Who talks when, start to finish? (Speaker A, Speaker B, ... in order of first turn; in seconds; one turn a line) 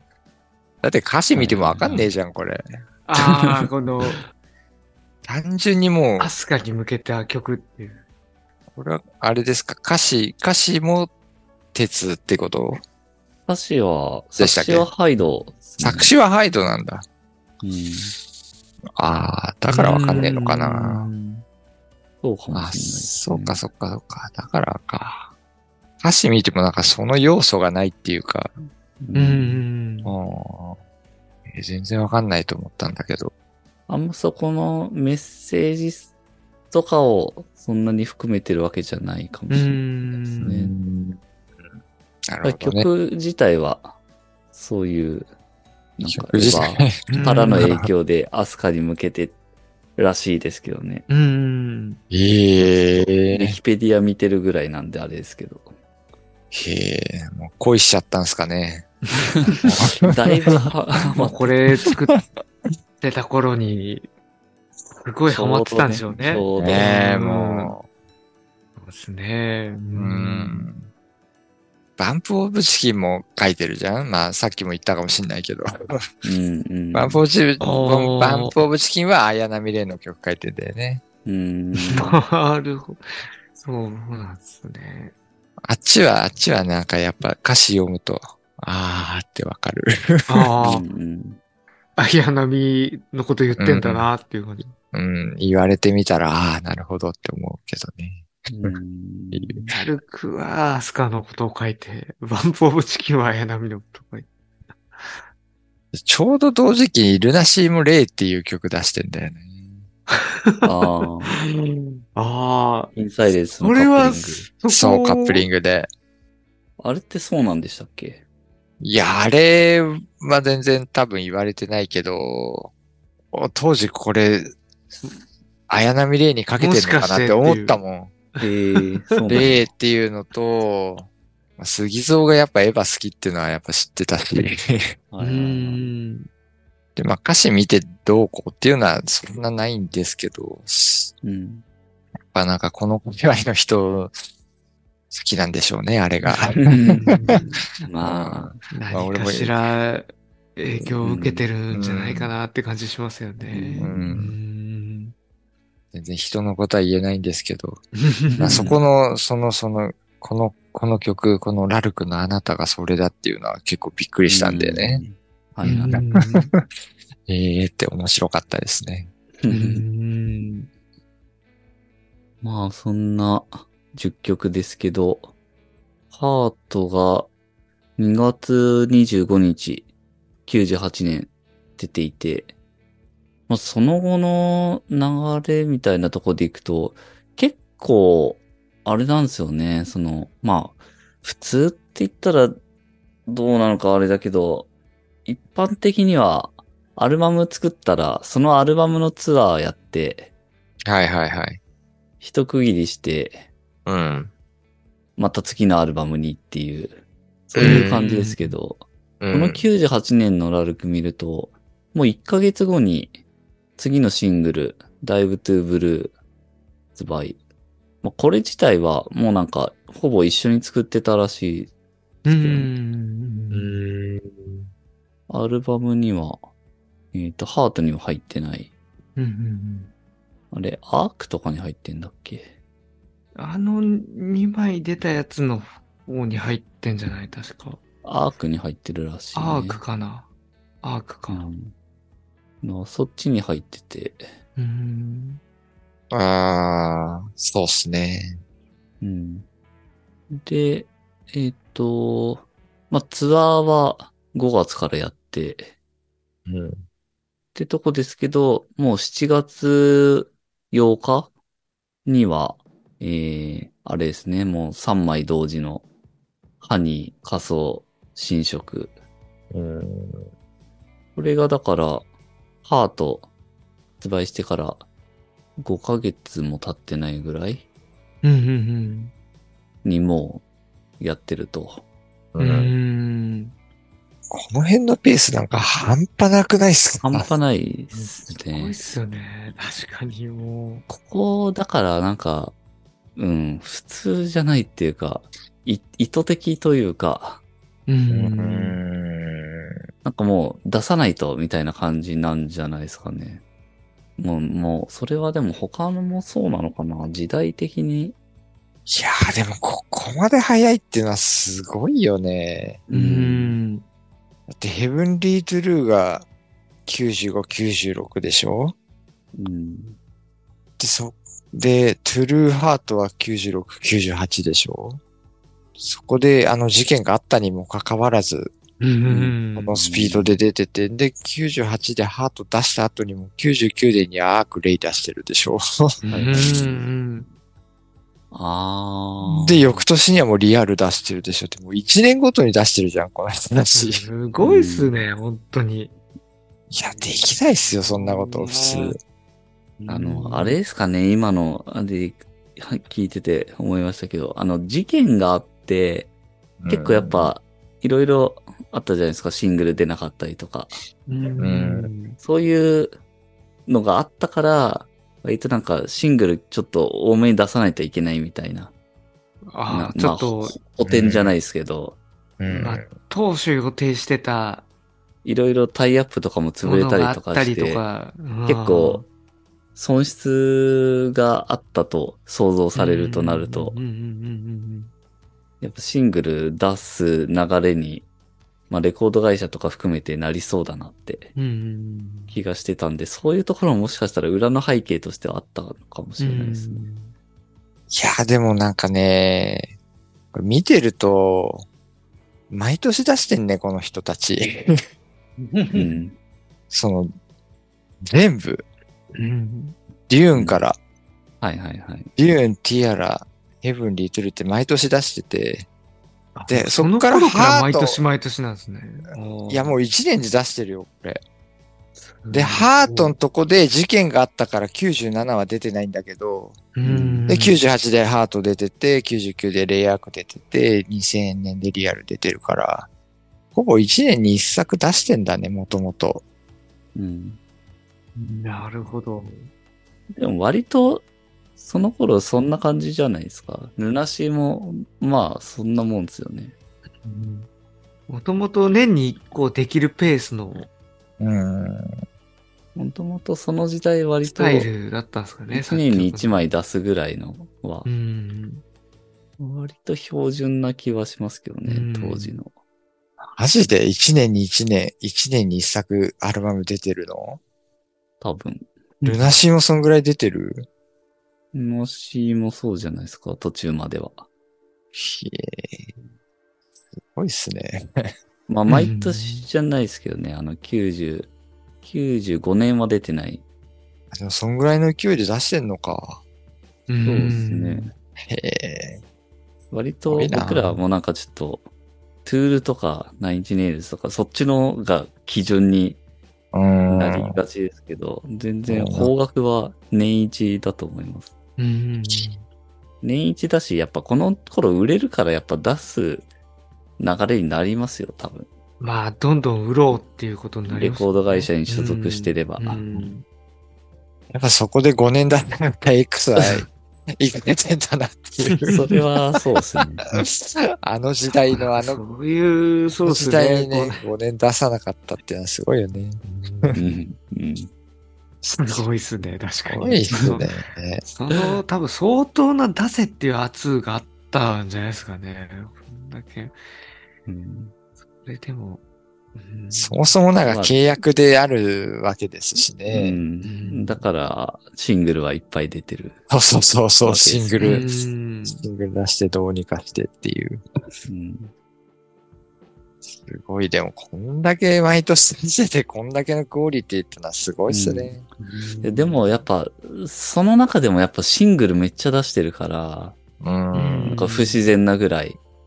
Speaker A: 0.8-2.6
Speaker B: 1.3-2.1
Speaker C: 3.0-4.2
Speaker A: 5.2-6.3
Speaker C: 6.2-8.0
Speaker A: 8.7-11.1
Speaker A: 11.7-12.8
Speaker B: 13.5-16.1
Speaker A: 14.4-14.9
Speaker A: 15.8-17.0
Speaker B: 17.6-18.1
Speaker A: 18.9-21.1
Speaker C: 19.7-21.4
Speaker B: 22.2-23.6
Speaker A: 22.5-25.3
Speaker A: 26.0-28.5
Speaker B: 29.0-29.6
Speaker C: 29.1-30.1
Speaker A: 30.0-30.8
Speaker A: 31.5-33.3
Speaker B: 33.9-36.1
Speaker B: 36.7-40.7
Speaker C: 39.5-40.5
Speaker A: 40.4-41.2
Speaker A: 42.3-42.9
Speaker B: 42.4-43.9
Speaker B: 44.5-45.3
Speaker B: 46.0-49.3
Speaker A: 46.1-47.9
Speaker C: 47.1-47.8
Speaker B: 50.0-51.0
Speaker C: 51.1-52.0
Speaker A: 52.1-53.5
Speaker B: 52.6-55.7
Speaker A: 56.5-58.9
Speaker C: 59.2-59.7
Speaker B: 59.5-61.5
Speaker A: 59.6-60.7
Speaker C: 61.1-62.1
Speaker A: 61.8-62.2
Speaker C: 63.0-64.1
Speaker C: 64.9-67.8
Speaker B: 65.3-66.8
Speaker A: 66.5-67.8
Speaker C: 68.8-70.7
Speaker A: 69.9-70.9
Speaker A: 72.0-76.0
Speaker B: 76.2-77.2
Speaker A: 76.9-81.0
Speaker C: 77.6-78.5
Speaker B: 81.2-82.2
Speaker C: 81.8-83.0
Speaker C: 83.6-85.1
Speaker A: 85.7-90.5
Speaker C: 90.3-90.8
Speaker B: 90.6-91.4
Speaker C: 92.0-94.7
Speaker A: 93.6-94.1
Speaker A: 94.9-98.7
Speaker B: 98.5-99.8
Speaker A: 99.3-99.7
Speaker C: 99.7-104.3
Speaker A: 105.9-109.7
Speaker C: 110.1-112.9
Speaker B: 110.6-111.3
Speaker B: 112.9-114.5
Speaker C: 113.6-115.5
Speaker A: 114.7-115.9
Speaker B: 116.8-118.2
Speaker A: 118.8-122.7
Speaker A: 123.3-124.6
Speaker A: 125.7-128.1
Speaker C: 126.6-127.8
Speaker C: 128.3-129.6
Speaker B: 128.4-129.6
Speaker A: 129.3-134.9
Speaker B: 135.1-135.9
Speaker C: 135.2-136.3
Speaker A: 136.9-141.1
Speaker B: 141.2-141.6
Speaker A: 142.3-144.1
Speaker A: 145.1-147.4
Speaker C: 146.3-147.7
Speaker B: 146.6-148.6
Speaker A: 147.9-149.6
Speaker C: 148.7-155.1
Speaker B: 151.0-151.4
Speaker A: 151.7-152.3
Speaker B: 153.5-154.1
Speaker A: 153.8-154.3
Speaker A: 155.9-157.8
Speaker C: 157.9-158.7
Speaker B: 158.3-158.8
Speaker A: 158.4-165.0
Speaker B: 164.2-166.1
Speaker C: 165.6-166.5
Speaker A: 165.9-166.6
Speaker A: 167.3-169.1
Speaker B: 169.4-169.8
Speaker C: 169.5-170.7
Speaker B: 172.4-175.3
Speaker B: 176.1-177.3
Speaker B: 178.0-179.9
Speaker B: 180.4-182.5
Speaker B: 183.5-192.6
Speaker B: 193.2-194.7
Speaker B: 195.2-200.3
Speaker A: 200.9-201.6
Speaker B: 202.2-203.5
Speaker A: 203.8-204.3
Speaker B: 205.2-213.2
Speaker A: 207.5-208.0
Speaker C: 207.6-208.6
Speaker A: 209.2-209.7
Speaker B: 213.8-216.1
Speaker B: 216.9-217.4
Speaker B: 218.0-221.7
Speaker C: 222.2-223.8
Speaker B: 222.3-222.7
Speaker A: 223.5-224.7
Speaker B: 225.3-226.4
Speaker B: 227.1-228.7
Speaker C: 229.2-229.9
Speaker B: 230.5-232.5
Speaker C: 233.3-237.8
Speaker B: 238.0-239.8
Speaker C: 239.3-240.3
Speaker C: 240.8-241.4
Speaker B: 241.3-241.7
Speaker B: 242.6-244.3
Speaker C: 244.6-245.4
Speaker A: 246.1-248.4
Speaker B: 249.0-249.4
Speaker B: 250.3-255.7
Speaker A: 256.5-256.8
Speaker B: 257.5-261.3
Speaker B: 262.1-265.8
Speaker B: 266.6-268.9
Speaker A: 269.5-270.3
Speaker B: 271.1-272.1
Speaker B: 272.6-273.3
Speaker B: 274.0-274.8
Speaker B: 275.6-277.6
Speaker C: 278.2-279.1
Speaker B: 279.8-280.4
Speaker B: 281.0-281.8
Speaker A: 282.3-282.7
Speaker C: 282.4-283.5
Speaker A: 284.3-287.3
Speaker B: 287.0-288.8
Speaker C: 287.9-290.9
Speaker B: 290.9-292.5
Speaker B: 293.1-297.4
Speaker C: 297.9-298.8
Speaker A: 298.1-299.8
Speaker B: 300.0-303.4
Speaker B: 304.2-308.2
Speaker A: 308.9-312.8
Speaker C: 312.9-313.8
Speaker B: 312.9-313.6
Speaker A: 314.5-316.2
Speaker A: 316.9-318.7
Speaker B: 319.3-320.0
Speaker A: 320.8-325.0
Speaker A: 325.8-328.5
Speaker C: 328.8-329.8
Speaker B: 329.0-330.4
Speaker A: 329.6-336.6
Speaker C: 336.0-337.3
Speaker B: 336.1-336.8
Speaker B: 338.3-339.8
Speaker A: 339.4-344.1
Speaker C: 343.7-345.9
Speaker B: 344.4-345.0
Speaker A: 346.7-349.0
Speaker C: 347.6-348.9
Speaker C: 349.8-350.6
Speaker B: 349.9-356.1
Speaker A: 356.6-357.3
Speaker B: 356.7-360.8
Speaker C: 361.1-362.2
Speaker A: 361.4-361.9
Speaker B: 362.2-362.9
Speaker B: 363.7-368.7
Speaker C: 369.5-370.6
Speaker B: 369.7-372.0
Speaker A: 370.8-371.3
Speaker A: 372.4-372.9
Speaker C: 372.5-374.7
Speaker B: 375.2-377.8
Speaker C: 376.6-379.1
Speaker B: 378.5-379.0
Speaker B: 379.7-383.8
Speaker C: 382.7-384.9
Speaker B: 385.6-388.1
Speaker B: 388.7-391.3
Speaker C: 391.4-392.4
Speaker B: 392.3-396.8
Speaker C: 396.2-397.1
Speaker A: 397.9-399.7
Speaker A: 400.3-401.6
Speaker A: 402.5-404.8
Speaker C: 405.4-406.0
Speaker B: 405.7-406.1
Speaker A: 406.7-407.1
Speaker A: 408.0-408.6
Speaker C: 409.1-409.8
Speaker A: 410.1-410.8
Speaker B: 410.3-410.6
Speaker B: 411.4-412.1
Speaker A: 412.2-415.7
Speaker C: 416.3-419.8
Speaker A: 416.5-418.0
Speaker A: 419.5-421.2
Speaker C: 422.2-423.1
Speaker A: 422.3-426.6
Speaker C: 426.7-427.6
Speaker B: 426.8-427.3
Speaker A: 427.3-432.9
Speaker A: 433.5-436.2
Speaker B: 436.9-437.4
Speaker C: 438.1-439.5
Speaker B: 440.1-441.0
Speaker B: 441.6-446.5
Speaker C: 447.0-447.5
Speaker C: 448.1-450.7
Speaker A: 451.2-451.9
Speaker B: 452.7-454.7
Speaker C: 454.2-456.4
Speaker B: 455.5-457.9
Speaker C: 457.8-458.6
Speaker B: 459.4-462.5
Speaker C: 461.6-462.3
Speaker A: 463.2-467.4
Speaker B: 468.2-468.7
Speaker C: 469.0-469.3
Speaker A: 469.0-470.6
Speaker B: 471.5-474.2
Speaker A: 474.9-475.9
Speaker A: 477.1-478.1
Speaker B: 478.5-481.3
Speaker C: 478.7-479.5
Speaker B: 481.8-483.4
Speaker A: 484.1-486.2
Speaker C: 486.9-487.9
Speaker B: 487.0-487.9
Speaker A: 488.2-489.0
Speaker B: 489.7-491.6
Speaker A: 490.1-490.8
Speaker B: 492.2-496.0
Speaker A: 496.5-497.4
Speaker B: 496.9-501.3
Speaker A: 498.7-499.1
Speaker C: 501.6-502.4
Speaker B: 503.0-506.2
Speaker B: 507.0-508.5
Speaker C: 508.8-513.2
Speaker B: 510.7-512.8
Speaker A: 514.3-518.7
Speaker C: 518.4-519.0
Speaker B: 518.7-520.0
Speaker A: 520.1-522.0
Speaker C: 521.5-524.0
Speaker A: 523.0-526.8
Speaker C: 526.2-527.0
Speaker B: 526.7-527.7
Speaker C: 528.4-530.5
Speaker A: 529.7-531.0
Speaker C: 531.1-536.6
Speaker B: 537.3-537.7
Speaker C: 538.2-538.8
Speaker C: 539.3-540.1
Speaker A: 539.7-543.2
Speaker B: 540.5-540.8
Speaker B: 542.9-546.2
Speaker C: 543.4-544.0
Speaker A: 546.3-547.9
Speaker B: 547.0-547.8
Speaker C: 547.6-548.6
Speaker A: 548.5-550.6
Speaker B: 551.1-551.5
Speaker A: 553.1-558.2
Speaker B: 557.7-558.2
Speaker C: 558.4-559.4
Speaker B: 558.8-563.2
Speaker A: 563.4-564.2
Speaker C: 563.7-564.7
Speaker B: 564.1-565.4